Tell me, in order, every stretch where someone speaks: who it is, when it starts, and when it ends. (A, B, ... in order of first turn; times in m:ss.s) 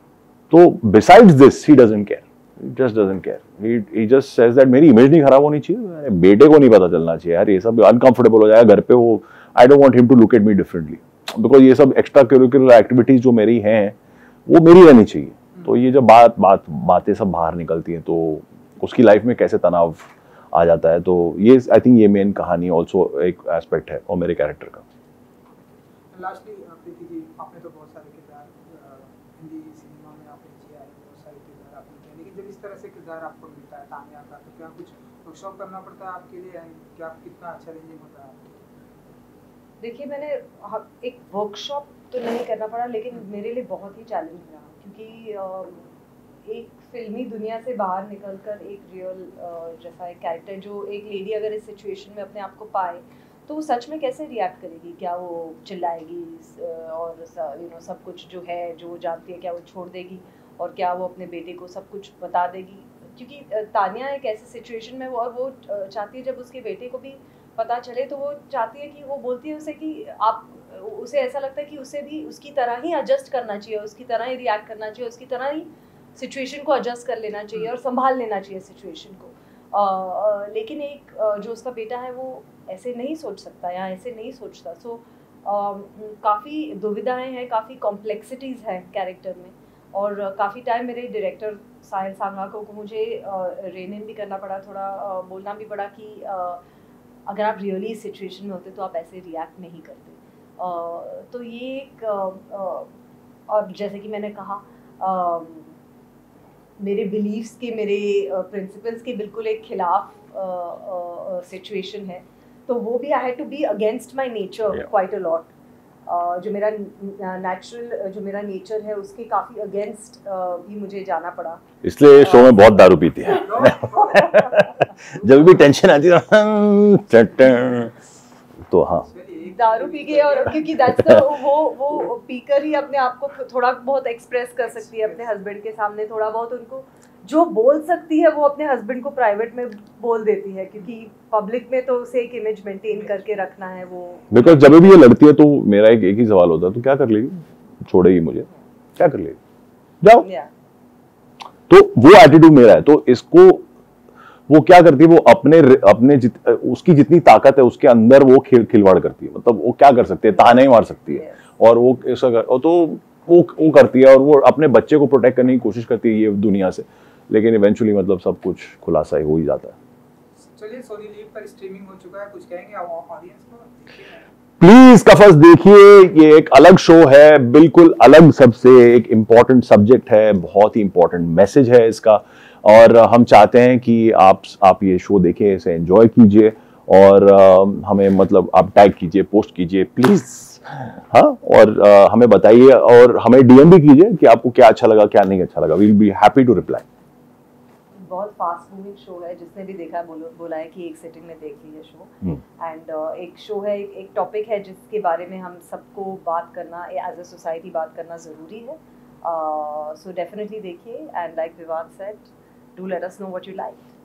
0:00.5-0:14.0 A
0:14.5-0:24.8 A
0:26.1-0:38.6 B
0:39.8-0:45.9 C
0:46.4-1:36.6 C
1:37.3-1:42.9 C
1:43.5-1:45.7 C
1:46.8-1:55.5 C
1:56.1-2:01.6 C
2:01.8-2:08.0 A
2:02.2-2:02.6 C
2:03.3-2:04.5 B
2:08.7-2:09.1 A
2:08.9-2:10.7 B
2:09.4-2:25.0 C
2:14.6-2:15.3 B
2:24.3-2:29.4 A
2:30.2-2:30.5 C
2:31.7-2:33.6 A
2:34.5-2:49.8 A
2:40.4-2:41.4 C
2:50.5-2:54.3 B
2:54.6-3:16.8 A
3:18.0-3:33.9 C